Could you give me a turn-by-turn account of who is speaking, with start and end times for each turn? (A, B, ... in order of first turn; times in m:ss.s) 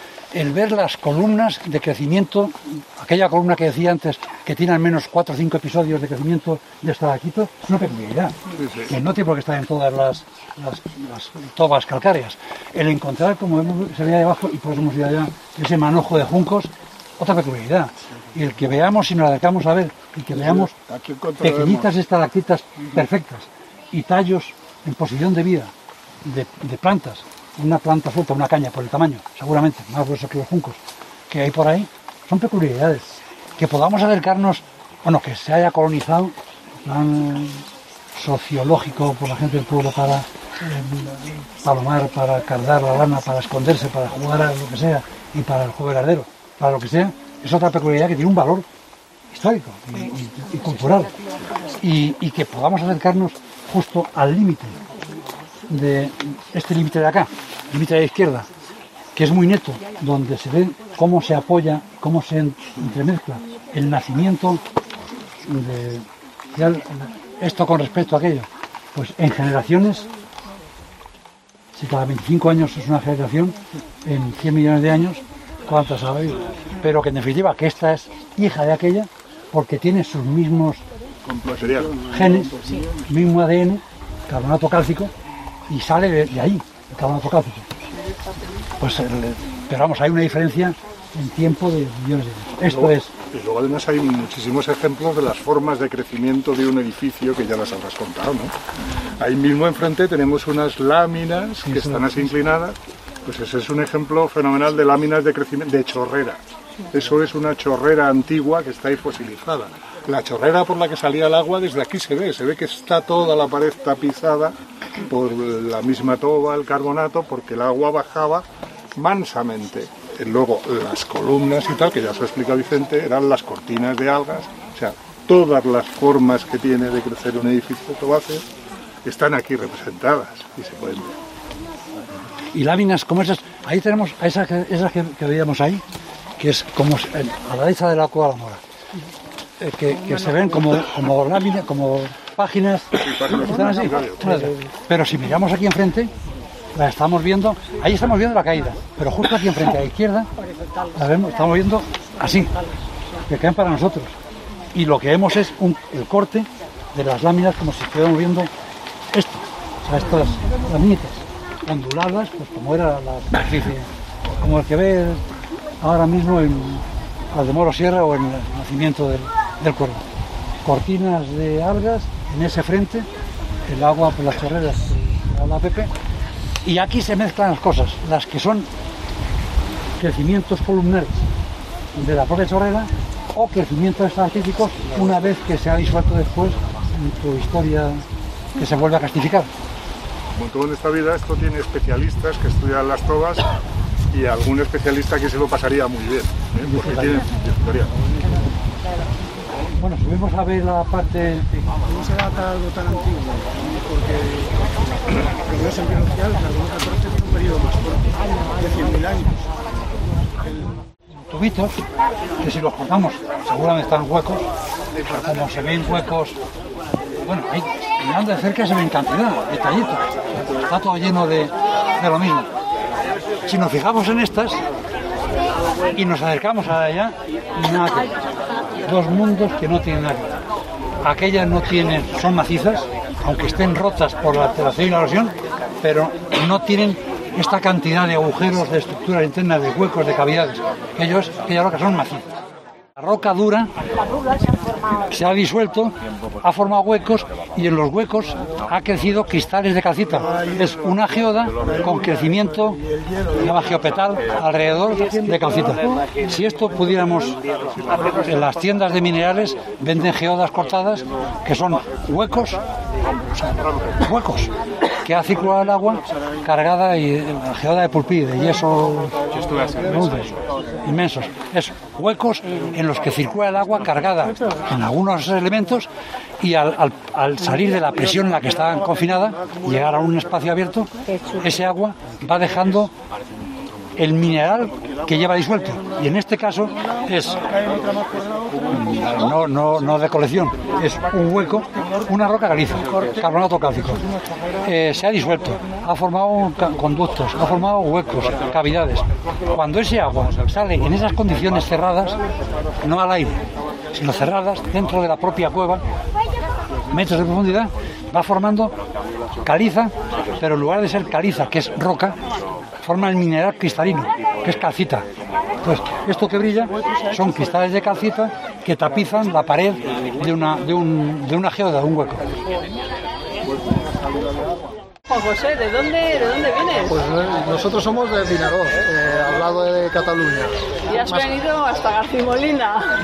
0:00.3-0:20.7 A
0:08.6-0:08.9 B
0:20.3-0:21.9 C
0:21.4-0:25.7 A
0:26.2-0:37.6 A
0:38.1-0:48.6 A
0:49.3-0:51.1 A
0:51.8-0:54.8 A
0:55.7-0:58.5 A
0:59.1-1:04.6 A
1:05.4-1:10.1 A
1:11.7-1:20.8 A
1:21.2-1:22.0 B
1:21.5-1:23.0 C
1:22.1-1:25.1 A
1:25.7-1:27.6 A
1:28.8-1:33.1 A
1:32.6-1:38.5 B
1:39.2-1:46.4 B
1:41.6-1:42.2 A
1:46.9-2:08.4 B
2:09.0-2:11.1 B
2:12.5-2:15.8 A
2:16.4-2:18.6 A
2:19.6-2:26.1 A
2:23.0-2:24.5 B
2:26.7-2:30.3 A
2:30.9-2:32.5 A
2:33.3-2:34.2 A
2:34.7-2:38.5 A
2:39.1-2:45.2 A
2:45.8-2:50.0 A
2:50.6-2:53.1 A
2:53.6-2:55.9 A
2:56.6-2:58.7 A
3:00.0-3:01.2 A
3:01.9-3:08.0 A
3:08.6-3:09.5 A
3:10.3-3:13.5 B
3:14.1-3:17.9 B
3:16.6-3:17.2 A
3:19.8-3:21.5 A
3:21.9-3:22.9 D
3:25.5-3:27.6 D
3:28.6-3:29.3 D
3:31.3-3:31.8 A
3:32.4-3:34.5 A
3:35.1-3:36.4 A
3:37.1-3:42.5 A
3:43.4-3:44.6 A
3:45.9-3:48.1 A
3:48.8-3:50.4 A
3:51.0-4:02.3 A
4:03.0-4:03.7 A
4:05.1-4:22.6 A
4:23.3-4:24.5 A
4:25.0-4:35.9 A
4:36.4-4:42.9 A
4:44.0-4:47.4 A
4:48.7-4:54.0 A
4:54.6-5:02.2 A
5:02.8-5:03.4 A
5:03.9-5:05.8 A
5:06.9-5:08.7 A
5:09.4-5:12.2 A
5:12.8-5:15.0 A
5:15.6-5:22.3 A
5:25.1-5:27.0 E
5:26.9-5:31.3 F
5:30.9-5:32.9 E